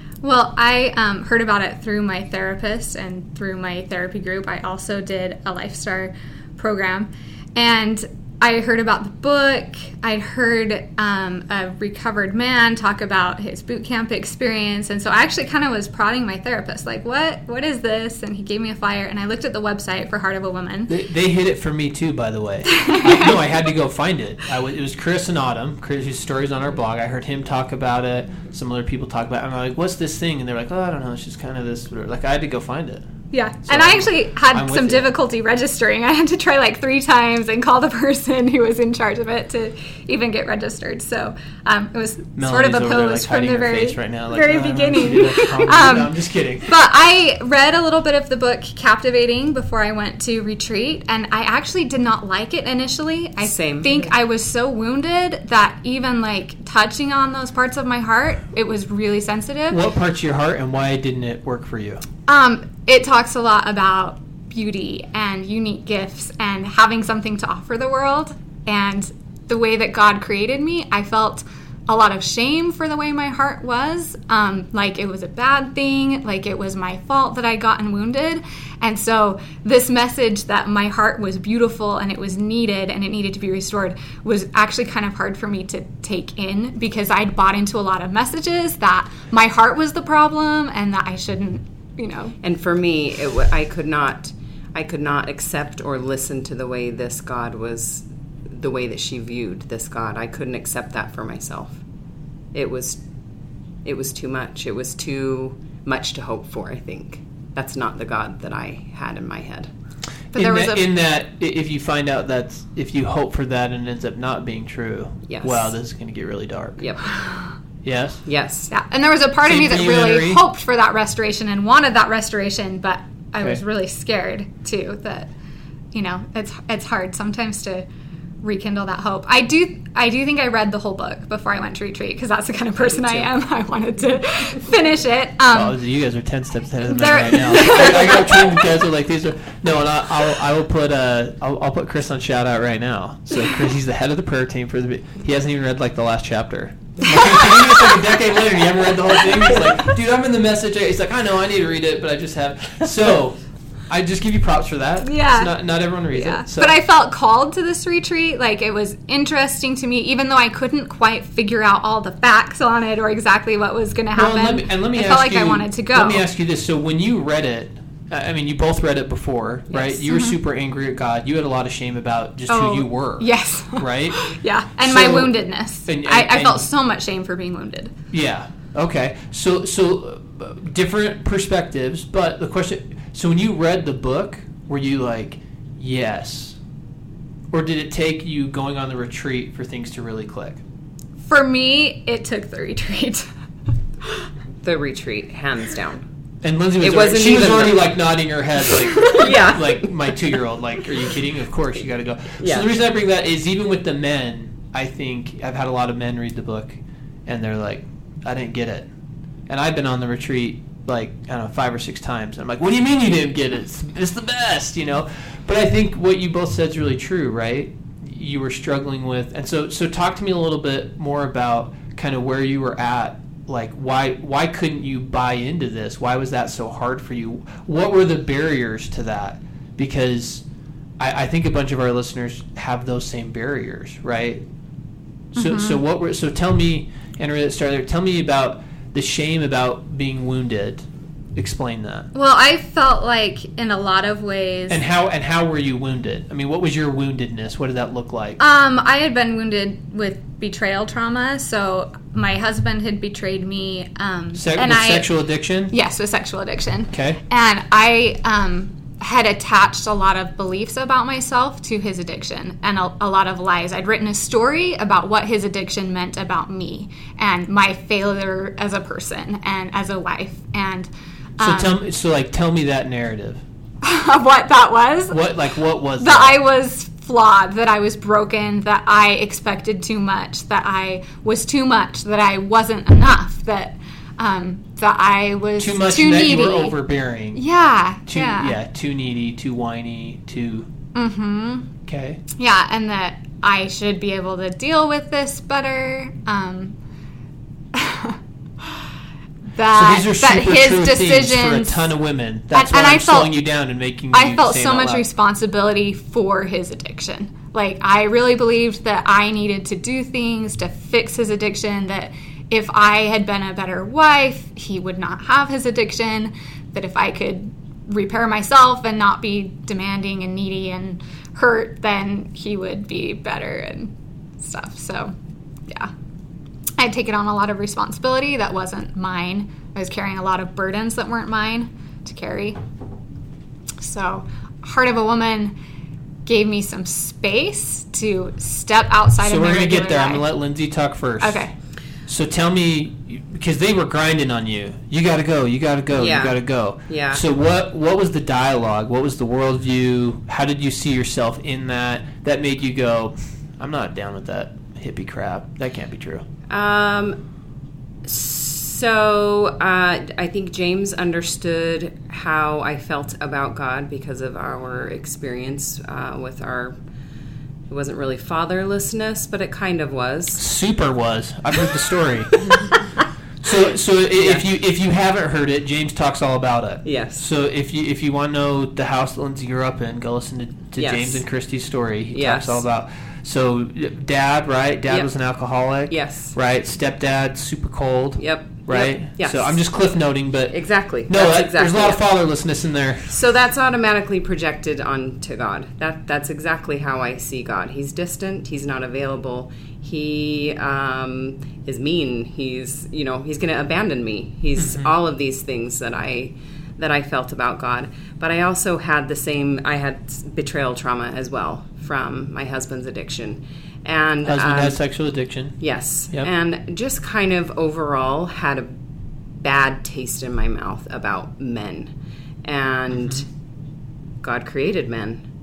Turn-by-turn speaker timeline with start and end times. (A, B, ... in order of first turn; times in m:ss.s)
0:00.2-0:20.9 A
0:20.9-0:33.0 B
0:22.8-0:23.3 A
0:33.3-0:59.8 A
0:33.6-0:35.1 B
0:42.4-0:46.6 B
0:53.4-0:54.0 C
0:59.7-1:02.0 B
1:02.3-1:32.3 A
1:32.4-1:41.8 C
1:42.5-1:43.0 C
1:43.8-1:49.7 C
1:50.3-1:56.8 B
1:50.3-1:50.8 A
1:55.3-1:55.7 C
1:56.8-1:57.2 C
1:57.8-1:58.2 B
1:58.2-1:58.7 C
1:58.7-2:05.3 A
1:59.4-2:00.4 B
2:05.9-2:07.8 A
2:08.4-2:15.8 A
2:12.8-2:13.3 C
2:15.5-2:36.7 B
2:16.8-2:18.6 A
2:27.0-2:28.0 A
2:35.0-2:46.2 A
2:44.1-2:54.3 B
2:49.7-2:50.4 A
2:52.5-2:57.9 A
2:54.8-2:55.3 B
2:55.8-2:56.7 B
2:58.1-3:06.6 B
3:07.5-3:10.6 B
3:11.3-3:13.3 A
3:14.6-3:16.0 C
3:16.4-3:28.9 B
3:16.8-3:18.0 C
3:19.0-3:20.4 C
3:22.4-3:22.6 C
3:29.5-3:50.4 B
3:51.0-3:54.4 B
3:55.3-4:02.1 B
3:55.4-3:55.8 A
4:02.1-4:04.8 A
4:04.7-4:08.4 B
4:08.4-4:31.8 A
4:14.3-4:15.7 B
4:16.9-4:17.2 B
4:31.4-4:33.4 B
4:33.8-4:35.3 A
4:35.1-4:36.4 B
4:36.0-4:46.8 A
4:45.6-4:47.4 B
4:47.3-4:48.6 A
4:48.1-4:50.7 B
4:50.9-4:51.7 A
4:51.8-4:52.2 B
4:52.4-4:56.8 A
4:57.7-4:58.2 A
4:59.5-5:01.9 A
4:59.7-5:05.0 B
5:02.5-5:03.4 A
5:04.1-5:25.1 A
5:26.8-5:32.6 A
5:33.8-5:35.5 A
5:36.2-5:40.3 A
5:39.2-5:41.5 B
5:41.2-5:41.5 A
5:42.0-5:56.2 B
5:45.9-5:47.2 C
5:56.5-5:57.2 C
5:58.0-6:06.7 C
6:07.7-6:10.4 C
6:10.4-6:12.6 B
6:13.4-6:33.1 B
6:14.2-6:14.4 C
6:16.8-6:17.2 C
6:20.8-6:21.2 C
6:22.1-6:22.6 C
6:25.9-6:26.4 C
6:28.2-6:29.6 C
6:30.5-6:32.0 C
6:33.1-6:54.8 C
6:44.6-6:44.9 B
6:54.2-6:55.6 B
6:55.6-6:58.7 C
6:59.4-7:01.9 C
7:02.4-7:03.2 C
7:02.9-7:03.2 B
7:04.2-7:05.2 C